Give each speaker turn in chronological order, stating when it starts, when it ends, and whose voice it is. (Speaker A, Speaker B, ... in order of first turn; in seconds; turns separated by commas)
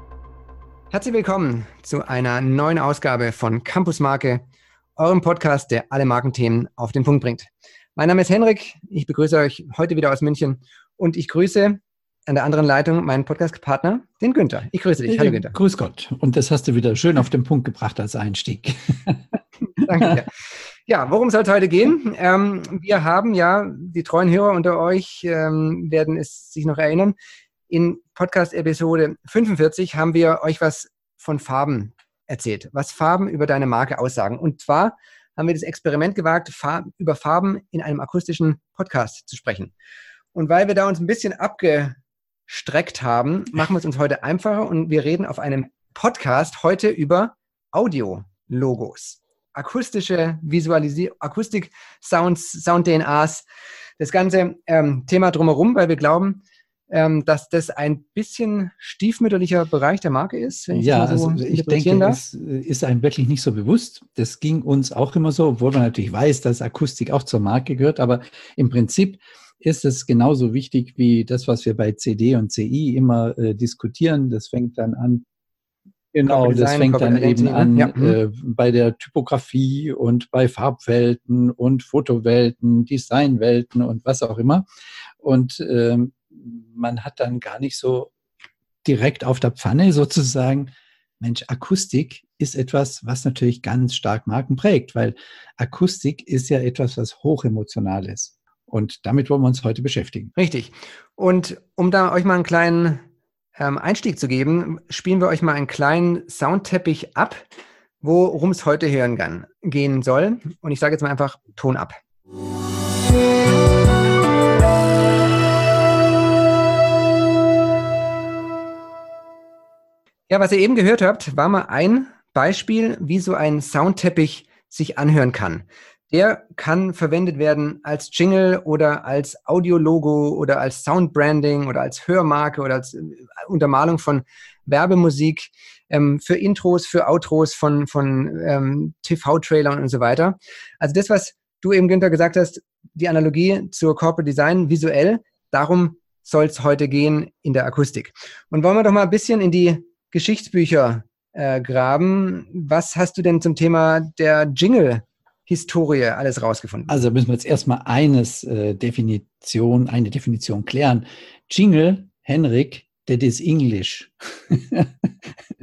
Speaker A: 0.9-4.4, Speaker A: 5.0-15.5, Speaker B: 15.1-19.4, Speaker A: 19.8-20.3, Speaker A: 20.9-27.2, Speaker A: 27.7-39.7, Speaker A: 40.4-42.0, Speaker A: 42.5-53.5, Speaker A: 54.0-62.2, Speaker B: 60.7-75.2, Speaker B: 76.1-84.7, Speaker A: 76.3-78.2, Speaker B: 85.2-88.1, Speaker B: 88.8-100.3, Speaker A: 100.4-103.0, Speaker A: 103.6-107.4, Speaker A: 108.0-112.0, Speaker A: 120.3-157.0, Speaker B: 156.9-165.3